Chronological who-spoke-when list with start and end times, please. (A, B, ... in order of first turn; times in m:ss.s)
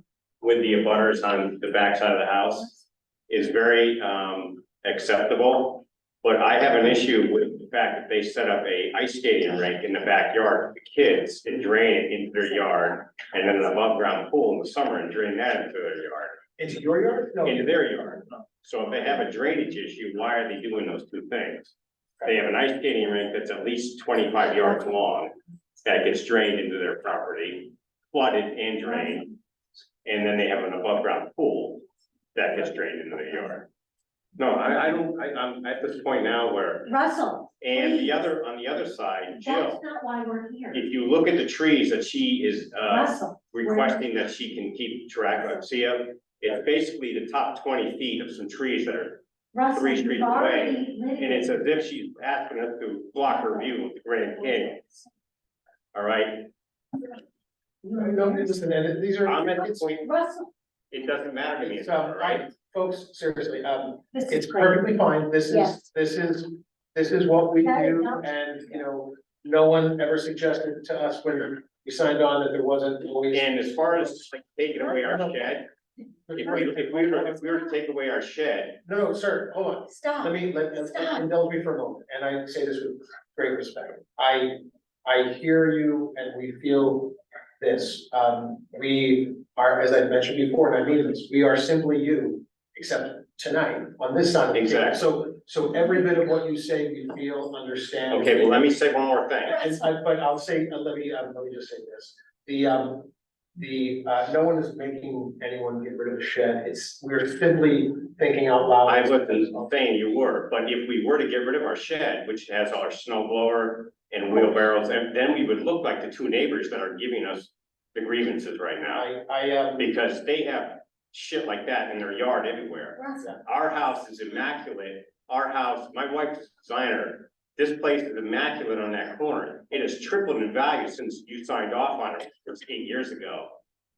0:00.4-0:16.4 A
0:16.6-0:17.7 B
0:17.4-0:21.7 A
0:22.2-0:25.3 A
0:25.8-0:29.3 A
0:30.0-0:31.8 A
0:32.3-0:33.6 A
0:34.4-0:36.9 A
0:36.9-0:38.2 C
0:37.6-0:39.8 A
0:39.3-0:40.8 C
0:40.7-0:49.2 A
0:42.9-0:44.0 C
0:49.5-0:51.7 C
0:49.7-0:54.8 A
0:53.2-0:53.7 C
0:54.3-0:55.0 C
0:55.9-0:56.5 A
0:57.8-0:58.6 C
0:57.9-1:00.0 B
0:59.2-1:00.1 A
0:59.4-1:00.5 C
1:00.9-1:02.4 A
1:01.6-1:14.2 B
1:04.1-1:05.8 C
1:07.6-1:08.3 C
1:13.3-1:15.7 A
1:14.8-1:15.6 B
1:16.3-1:17.4 B
1:16.3-1:18.8 A
1:18.8-1:38.7 B
1:19.9-1:21.2 C
1:34.5-1:35.0 A
1:38.1-1:39.6 A
1:39.5-1:49.7 B
1:48.8-1:59.0 A
1:58.9-1:59.9 B
1:59.8-2:13.6 A
2:03.0-2:03.3 C